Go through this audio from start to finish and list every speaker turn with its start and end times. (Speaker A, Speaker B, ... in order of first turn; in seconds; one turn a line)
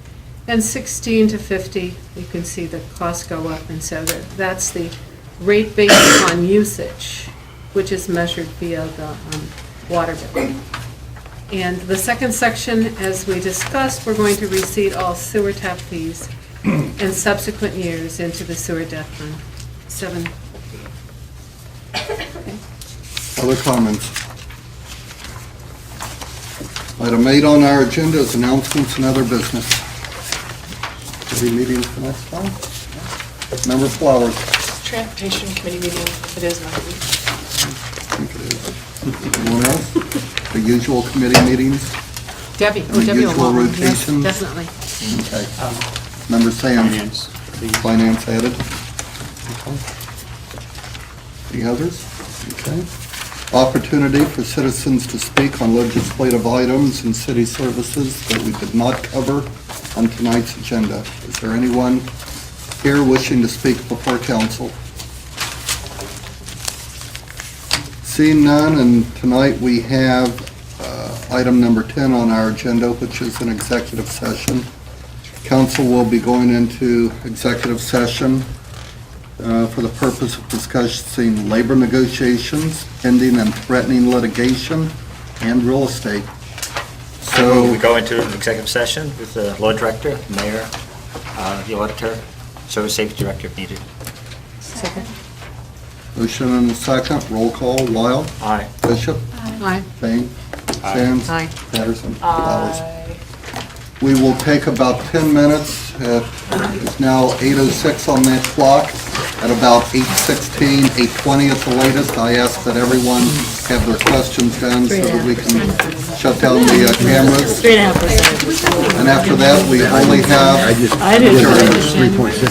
Speaker A: 0.5-10.6
Speaker A: 11.5-20.3
Speaker A: 22.1-22.6
Speaker B: 23.4-24.1
Speaker B: 27.0-29.8
Speaker B: 31.3-32.6
Speaker B: 33.6-34.5
Speaker C: 34.8-37.1
Speaker B: 37.6-41.9
Speaker A: 42.6-44.7
Speaker B: 42.9-44.4
Speaker B: 45.0-45.6
Speaker B: 46.3-47.1
Speaker B: 47.7-48.6
Speaker B: 49.5-49.8
Speaker B: 51.5-52.9
Speaker B: 53.5-62.1
Speaker B: 62.8-64.8
Speaker B: 68.0-74.7
Speaker B: 75.4-78.5
Speaker B: 79.4-86.3
Speaker B: 87.2-87.8
Speaker D: 87.2-90.7
Speaker D: 91.3-93.8
Speaker A: 94.7-95.1
Speaker B: 96.2-102.8
Speaker D: 98.4-98.7
Speaker A: 99.6-99.9
Speaker D: 100.8-101.1
Speaker A: 101.3-101.5
Speaker C: 102.2-103.2
Speaker B: 104.0-117.7
Speaker E: 114.9-115.4
Speaker E: 117.6-119.0
Speaker B: 118.9-122.1
Speaker E: 121.0-122.2